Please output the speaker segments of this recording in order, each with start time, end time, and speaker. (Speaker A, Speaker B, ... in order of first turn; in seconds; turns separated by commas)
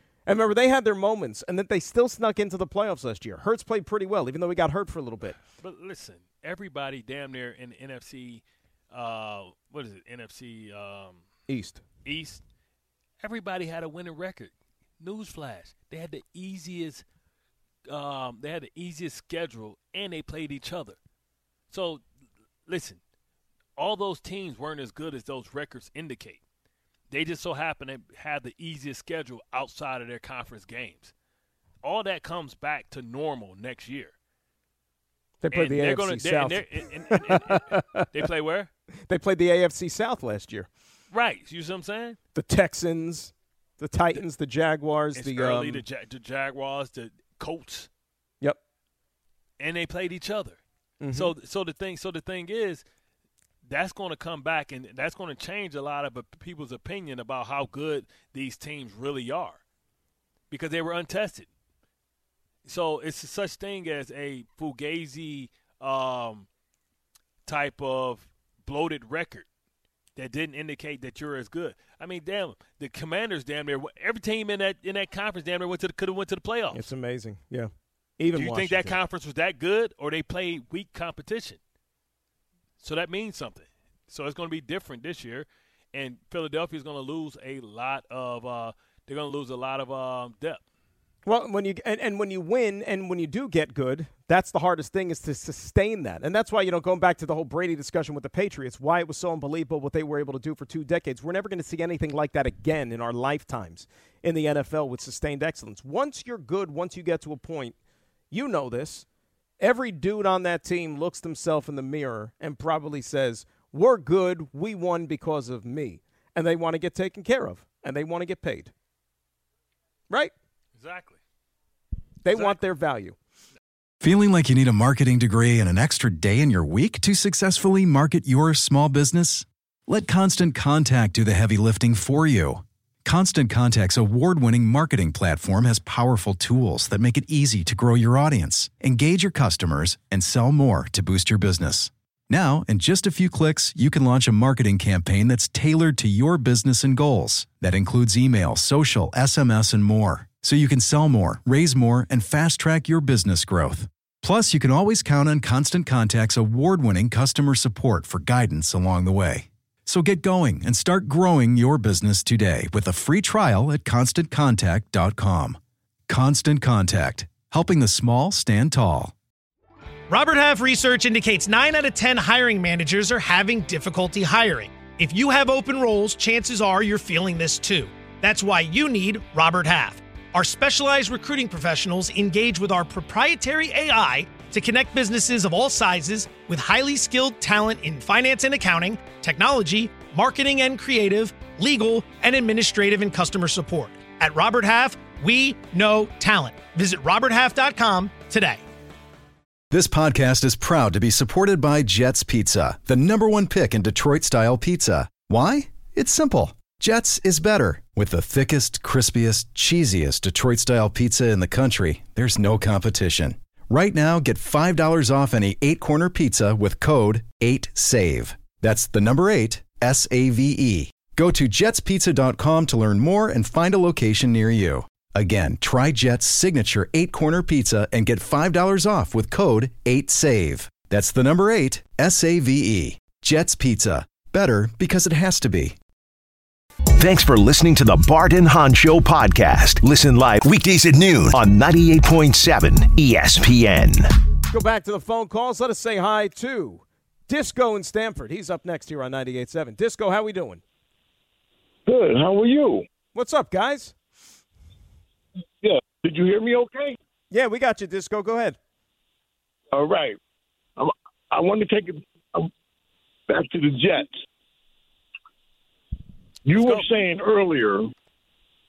Speaker A: 0.2-5.4, Speaker B: 5.6-11.2, Speaker A: 11.5-11.8, Speaker B: 12.0-12.4, Speaker B: 13.2-17.0, Speaker B: 17.9-21.0, Speaker B: 21.7-22.0, Speaker B: 22.7-23.0, Speaker B: 23.8-26.4, Speaker B: 27.1-31.1, Speaker B: 31.8-34.1, Speaker A: 35.4-38.2, Speaker B: 35.5-38.7, Speaker A: 39.0-40.7, Speaker B: 41.1-42.2, Speaker A: 42.3-45.8, Speaker B: 45.1-47.9, Speaker B: 49.6-50.6, Speaker A: 51.0-51.3, Speaker B: 51.1-52.8, Speaker B: 53.6-59.6, Speaker B: 60.5-61.5, Speaker B: 62.6-66.5, Speaker B: 67.5-69.5, Speaker B: 70.2-76.9, Speaker A: 76.7-79.0, Speaker B: 78.3-81.6, Speaker B: 82.8-90.6, Speaker A: 91.2-107.8, Speaker A: 108.3-109.0, Speaker A: 109.6-118.7, Speaker B: 120.8-121.2, Speaker A: 122.2-123.2, Speaker B: 122.3-122.6, Speaker C: 124.0-169.1, Speaker D: 170.1-198.6, Speaker C: 199.7-235.8, Speaker E: 236.9-244.1, Speaker A: 244.5-250.6, Speaker F: 251.8-252.8, Speaker A: 253.1-253.9, Speaker F: 255.6-257.0, Speaker A: 257.3-258.6, Speaker F: 259.7-260.2, Speaker F: 260.8-262.5, Speaker F: 263.3-264.2, Speaker F: 266.4-267.9, Speaker B: 266.5-266.9